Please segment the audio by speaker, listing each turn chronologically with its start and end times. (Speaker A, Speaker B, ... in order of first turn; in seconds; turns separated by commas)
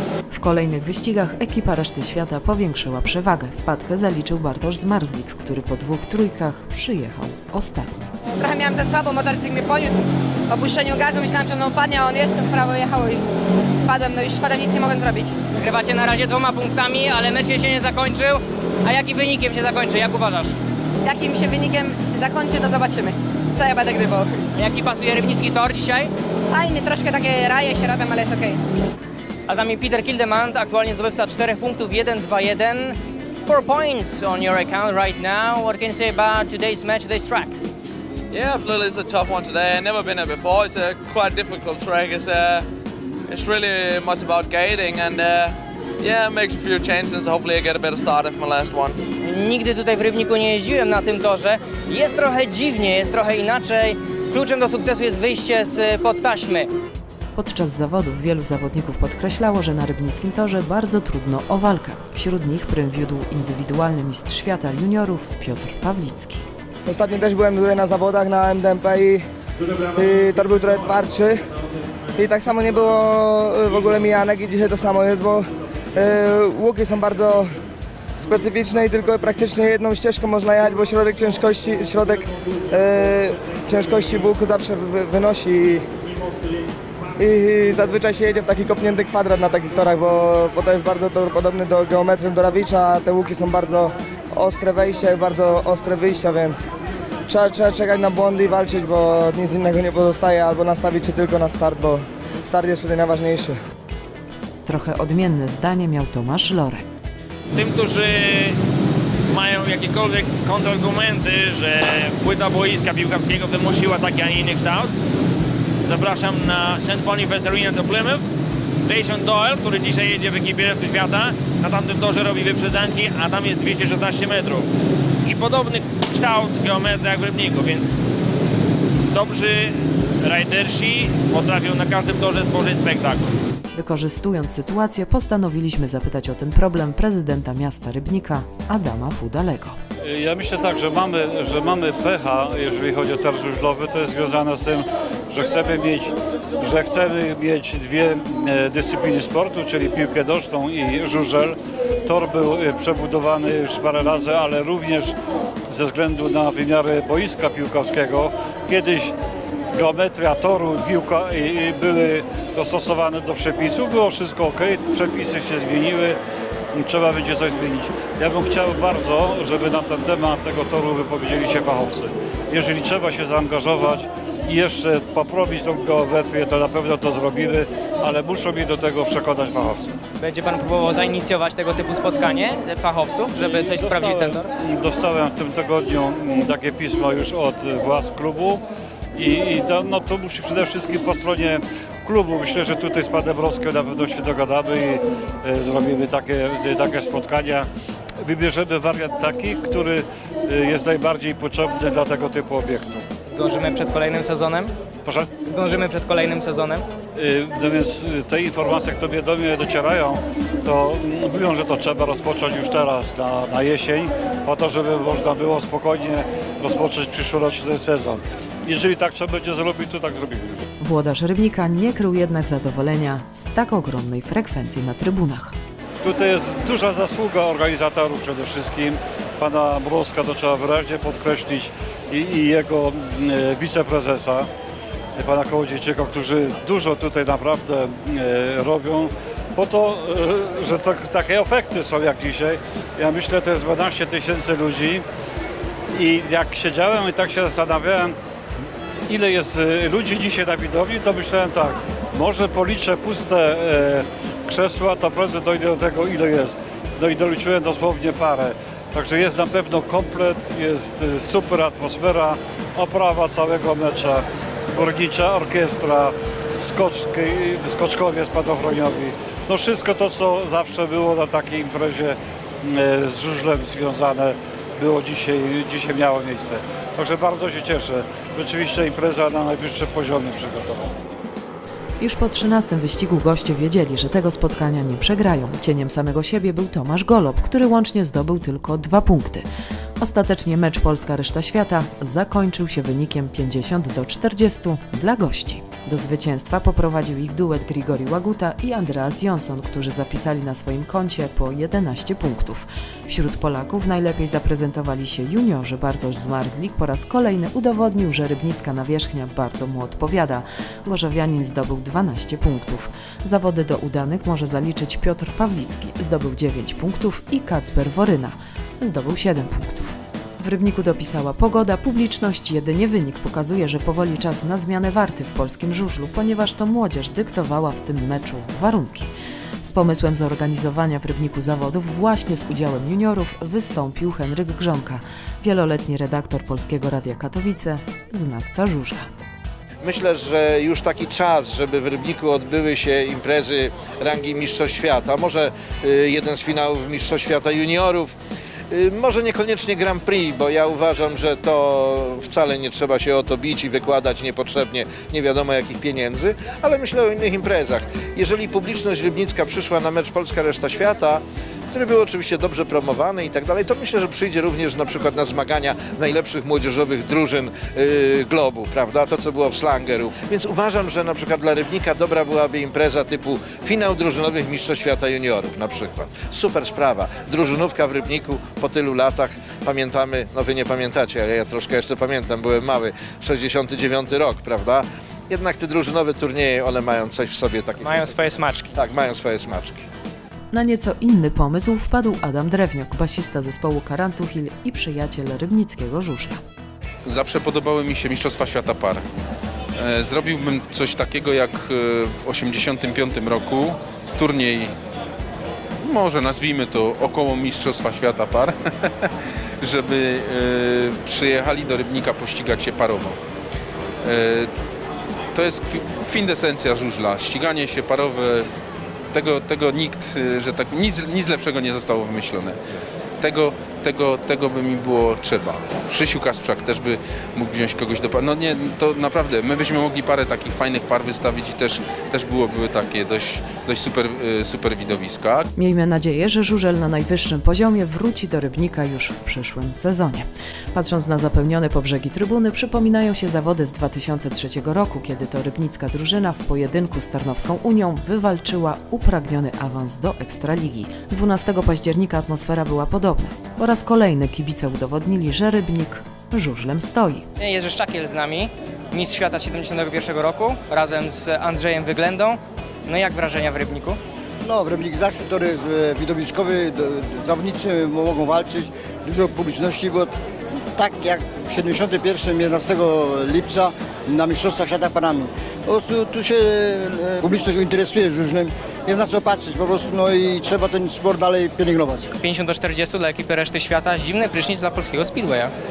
Speaker A: 0.3-8.0, Speaker B: 8.3-15.3, Speaker C: 15.5-20.6, Speaker B: 21.0-24.4, Speaker C: 24.6-26.1, Speaker B: 26.5-28.6, Speaker C: 29.5-37.5, Speaker D: 38.3-42.7, Speaker D: 43.3-49.0, Speaker C: 49.2-56.7, Speaker A: 57.4-66.5, Speaker E: 66.9-69.2, Speaker E: 70.0-71.4, Speaker E: 72.2-77.5, Speaker E: 78.2-85.8, Speaker E: 87.2-96.6, Speaker E: 97.3-103.6, Speaker A: 104.7-106.8, Speaker F: 107.5-108.6, Speaker F: 109.3-114.9, Speaker F: 115.9-118.2, Speaker F: 118.8-124.7, Speaker F: 125.3-128.0, Speaker F: 129.1-133.4, Speaker A: 133.7-139.8, Speaker G: 140.0-155.1, Speaker G: 155.7-159.2, Speaker G: 159.7-166.2, Speaker G: 166.7-180.0, Speaker C: 180.2-184.4, Speaker G: 183.4-188.6, Speaker G: 189.2-197.7, Speaker G: 198.2-203.1, Speaker C: 203.3-204.7, Speaker G: 205.1-205.3, Speaker C: 205.4-206.8, Speaker G: 207.2-220.6, Speaker A: 220.8-225.6, Speaker G: 226.0-234.5, Speaker G: 235.2-245.1, Speaker G: 245.9-248.2, Speaker G: 249.1-280.9, Speaker A: 282.0-289.5, Speaker A: 290.0-329.1, Speaker A: 329.6-339.1, Speaker H: 339.8-348.1, Speaker H: 348.7-389.8, Speaker C: 387.8-388.7, Speaker A: 390.5-396.4, Speaker I: 397.1-399.0, Speaker I: 399.8-404.7, Speaker I: 405.8-413.2, Speaker I: 414.0-414.5, Speaker I: 415.3-418.5, Speaker I: 419.1-422.6, Speaker I: 423.2-435.5, Speaker A: 435.6-457.3, Speaker C: 457.4-464.0, Speaker J: 464.4-470.1, Speaker J: 470.8-482.1, Speaker C: 482.2-485.5